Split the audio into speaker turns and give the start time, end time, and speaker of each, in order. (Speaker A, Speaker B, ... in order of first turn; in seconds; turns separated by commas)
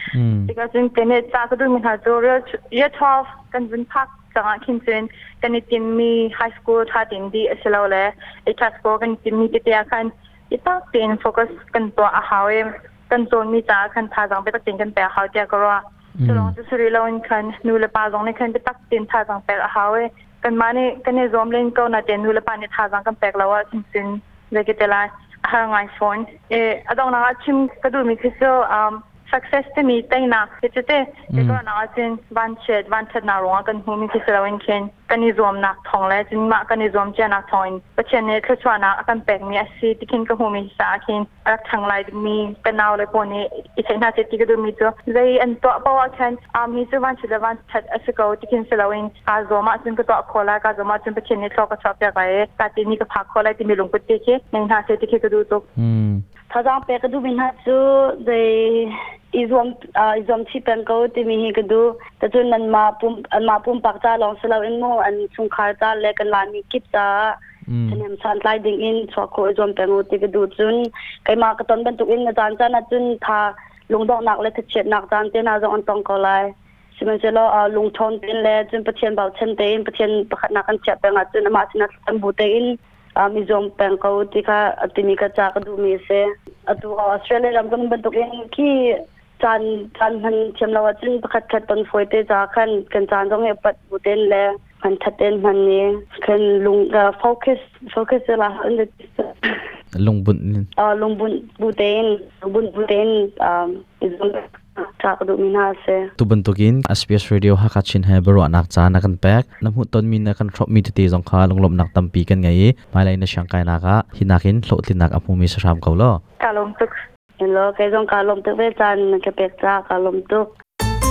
Speaker A: 0.1-0.5, Speaker B: 0.5-55.6, Speaker A: 16.2-16.6, Speaker A: 31.3-31.6, Speaker A: 55.8-56.2, Speaker C: 56.5-67.4, Speaker A: 67.7-68.0, Speaker C: 67.9-99.6, Speaker A: 100.0-100.7, Speaker C: 100.8-106.1, Speaker A: 106.2-116.1, Speaker B: 116.4-116.9, Speaker C: 117.4-120.5